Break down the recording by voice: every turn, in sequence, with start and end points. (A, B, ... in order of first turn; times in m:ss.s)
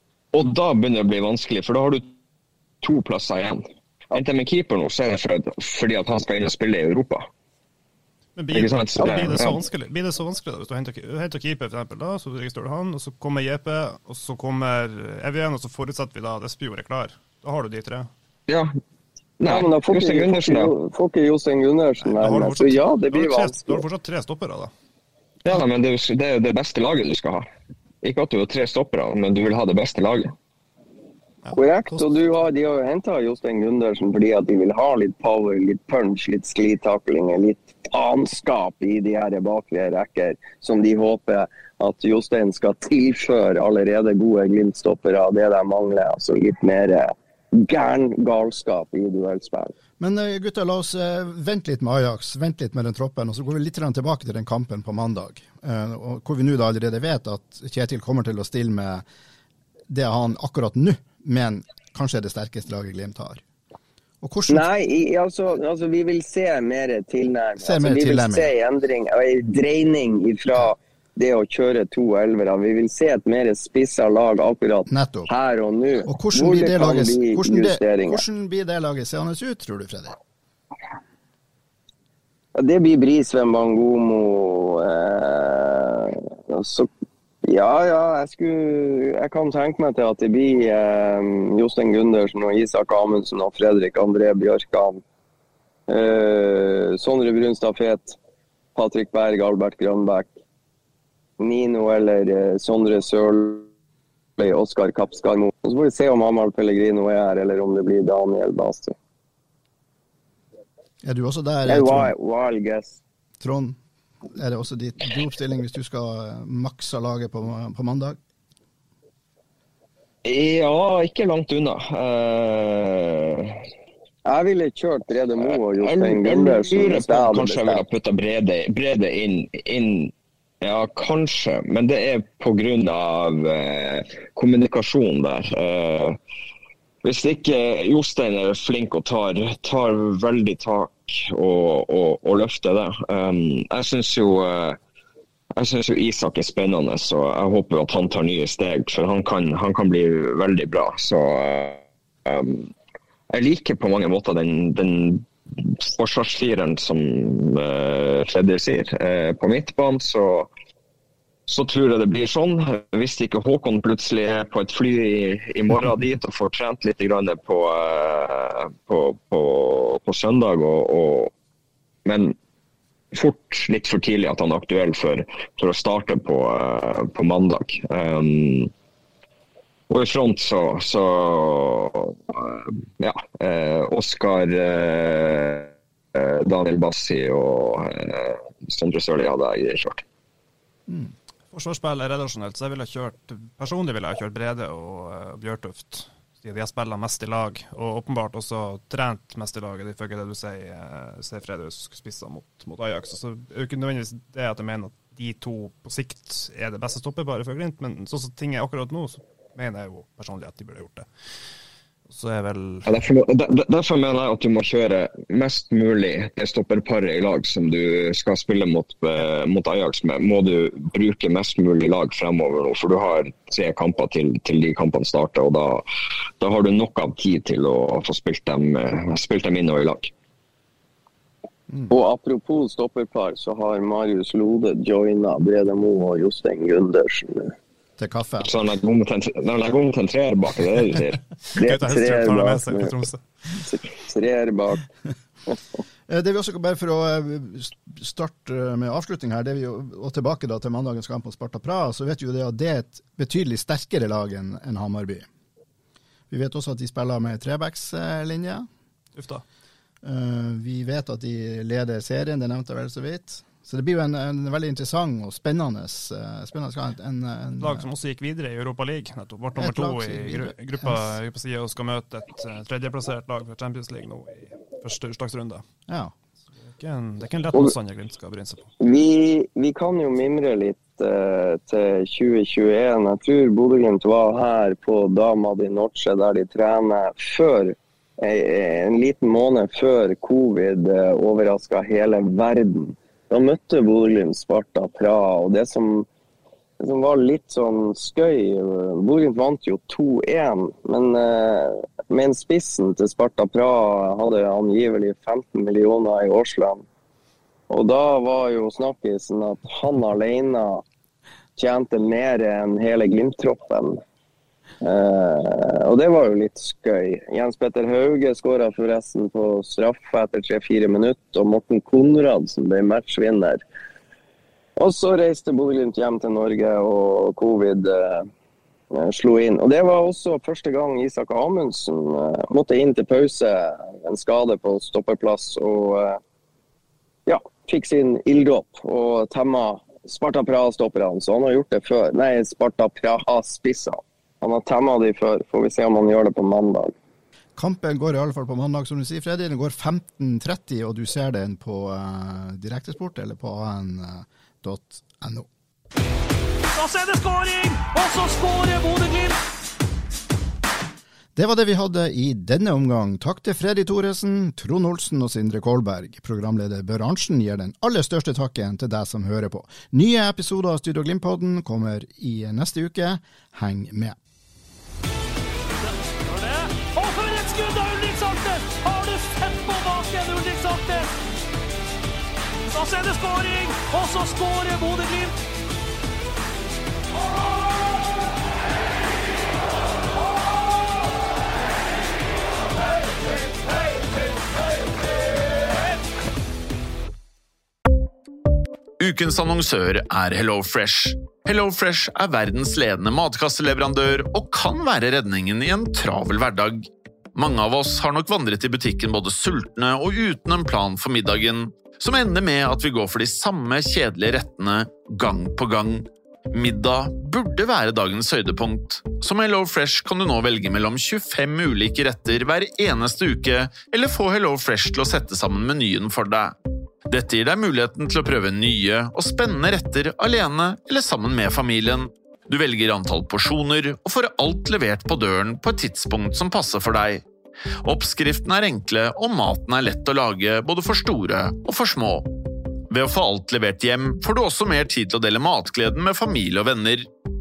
0:00.3-0:02.1 A
0:02.8-0:07.3 A
0:08.4-0:18.1 B
0:08.5-0:09.6 A
0:19.4-0:20.7 A
0:19.5-0:23.8 C
0:22.0-0:24.7 B
0:25.4-0:27.4 A
0:28.0-0:30.3 A
0:31.4-0:32.1 B
0:31.6-0:49.7 C
0:50.0-0:59.0 D
0:59.9-1:03.4 D
1:04.2-1:04.7 D
1:04.5-1:18.2 C
1:07.6-1:08.5 D
1:14.9-1:15.3 D
1:16.1-1:20.2 D
1:22.6-1:26.9 C
1:27.4-1:35.0 C
1:35.9-1:38.2 C
1:38.8-1:40.3 C
1:41.4-1:43.7 C
1:44.4-1:49.0 C
1:51.0-1:52.2 D
1:51.7-1:53.0 C
1:53.4-1:53.8 D
1:54.4-1:58.2 D
2:00.2-2:03.6 A
2:04.2-2:07.8 C
2:05.8-2:16.2 A
2:17.0-2:24.8 A
2:25.6-2:32.7 A
2:33.3-2:40.5 A
2:41.5-2:51.3 A
2:52.0-2:52.4 A
2:53.1-2:58.7 A
2:59.9-3:10.0 A
3:11.5-3:31.1 B
3:32.1-3:32.9 B
3:32.9-3:45.8 A
3:46.4-3:50.1 A
3:51.9-3:57.6 C
3:58.0-3:58.5 D
3:58.4-4:01.2 A
4:01.6-4:02.9 C
4:01.6-4:03.2 B
4:03.6-4:04.8 C
4:06.1-4:15.3 D
4:16.3-4:18.7 D
4:19.2-4:19.4 B
4:20.0-4:27.9 D
4:27.6-4:35.6 B
4:29.6-4:31.2 D
4:35.9-4:36.1 D
4:36.7-4:38.7 B
4:38.8-4:56.1 C
4:56.8-5:06.8 C
5:07.7-5:10.8 C
5:11.6-5:14.0 C
5:14.8-5:23.6 C
5:24.8-5:28.3 C
5:28.9-5:36.2 C
5:37.3-5:46.9 C
5:47.6-5:55.5 D
5:56.7-5:59.4 E
6:01.4-6:14.2 D
6:15.8-6:21.1 E
6:22.7-6:25.4 E
6:39.0-7:06.5 F
7:07.1-7:17.2 F
7:17.8-7:22.3 F
7:22.9-7:27.1 F